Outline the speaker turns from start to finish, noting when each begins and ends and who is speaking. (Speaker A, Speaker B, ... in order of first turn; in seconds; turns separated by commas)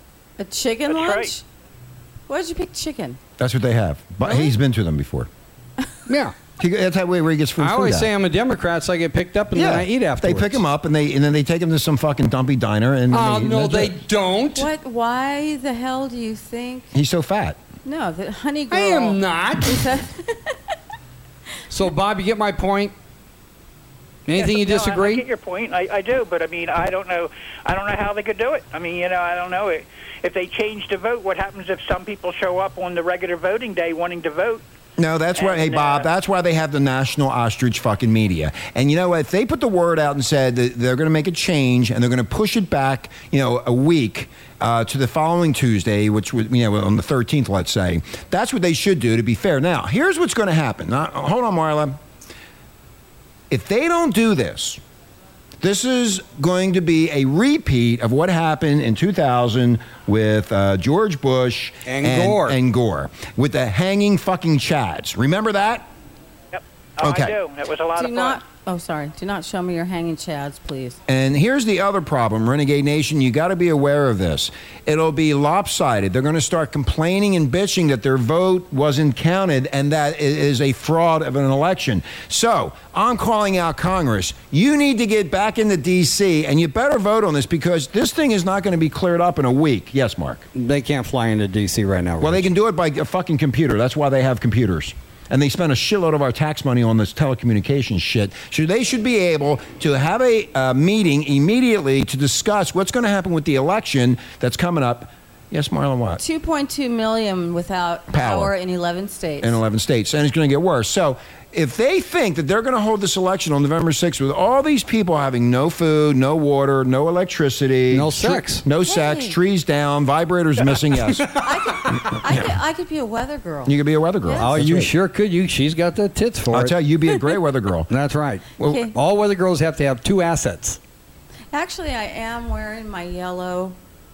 Speaker A: 0.4-1.4, Speaker B: 0.9-1.3, Speaker A: 2.3-3.2, Speaker C: 3.4-5.3, Speaker A: 4.2-4.5, Speaker D: 6.1-6.3, Speaker C: 6.6-8.1, Speaker D: 7.6-10.6, Speaker C: 9.5-14.0, Speaker D: 13.1-14.7, Speaker A: 14.5-16.9, Speaker C: 16.9-17.6, Speaker A: 17.8-20.6, Speaker D: 18.7-19.9, Speaker D: 21.7-22.9, Speaker D: 24.2-25.2, Speaker B: 24.3-34.6, Speaker C: 35.0-52.0, Speaker B: 35.4-36.0, Speaker C: 53.5-54.8, Speaker C: 55.6-65.9, Speaker D: 61.9-62.6, Speaker B: 66.5-68.4, Speaker C: 67.0-67.4, Speaker A: 68.0-71.0, Speaker C: 71.1-90.5, Speaker D: 90.5-92.5, Speaker C: 92.2-106.2, Speaker A: 106.2-109.6, Speaker C: 108.1-108.5, Speaker C: 109.4-122.5, Speaker D: 117.9-118.6, Speaker A: 118.8-119.4, Speaker A: 121.4-124.5, Speaker C: 123.6-124.9, Speaker D: 124.4-126.8, Speaker C: 126.5-127.9, Speaker D: 127.9-130.8, Speaker C: 128.6-128.9, Speaker A: 128.6-128.9, Speaker A: 131.5-133.8